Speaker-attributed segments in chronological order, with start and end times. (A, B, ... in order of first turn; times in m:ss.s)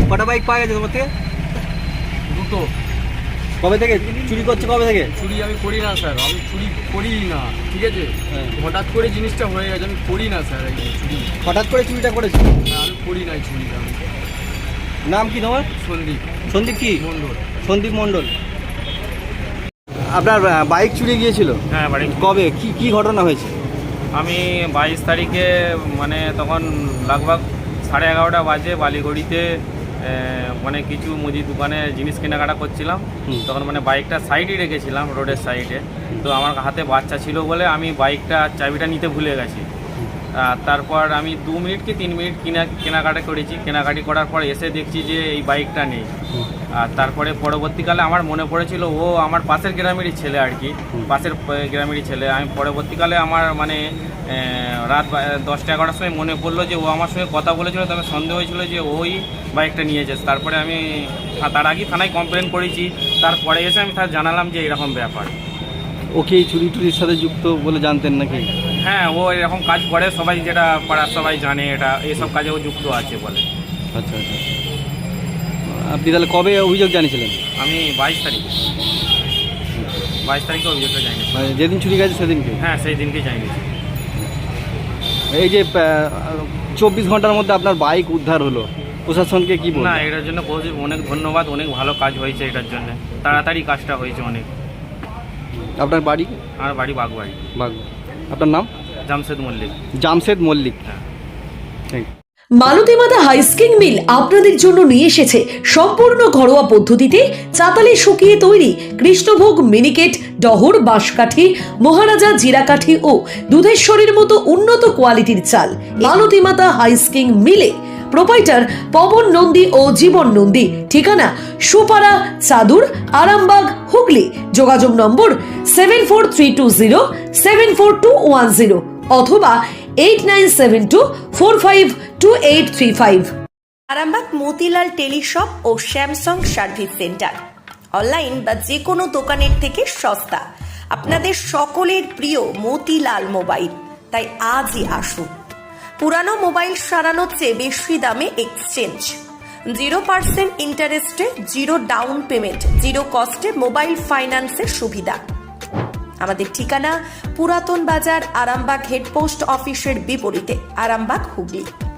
0:00.1-0:01.1 A
0:02.3-0:02.7 B
0:03.6-0:05.1 A
0:05.2-0:11.3 B
0:11.4-0:12.5 A
0:12.7-0:14.0 B
0:15.0-0:15.7 A
0:15.8-0:17.5 B
0:16.5-0:17.0 A
0:17.6-0:18.3 A
0:20.1-0:23.6 A
0:21.7-0:22.4 C
0:24.2-0:29.5 C
0:30.0-0:39.7 C
0:40.4-0:46.1 C
0:46.8-1:05.4 C
1:06.2-1:08.5 A
1:08.8-1:13.4 C
1:14.0-1:14.4 A
1:15.7-1:17.4 A
1:17.6-1:18.6 C
1:19.7-1:20.0 A
1:20.2-1:21.6 C
1:21.4-1:22.6 A
1:22.6-1:23.7 C
1:25.3-1:30.0 A
1:29.7-1:34.5 C
1:35.6-1:36.4 A
1:36.6-1:37.4 C
1:37.6-1:38.7 A
1:39.1-1:39.8 C
1:40.0-1:40.8 A
1:42.6-2:13.3 D
2:13.9-2:17.4 E
2:18.0-2:25.4 E
2:26.0-2:29.2 E
2:29.7-2:35.2 E
2:36.2-2:41.7 E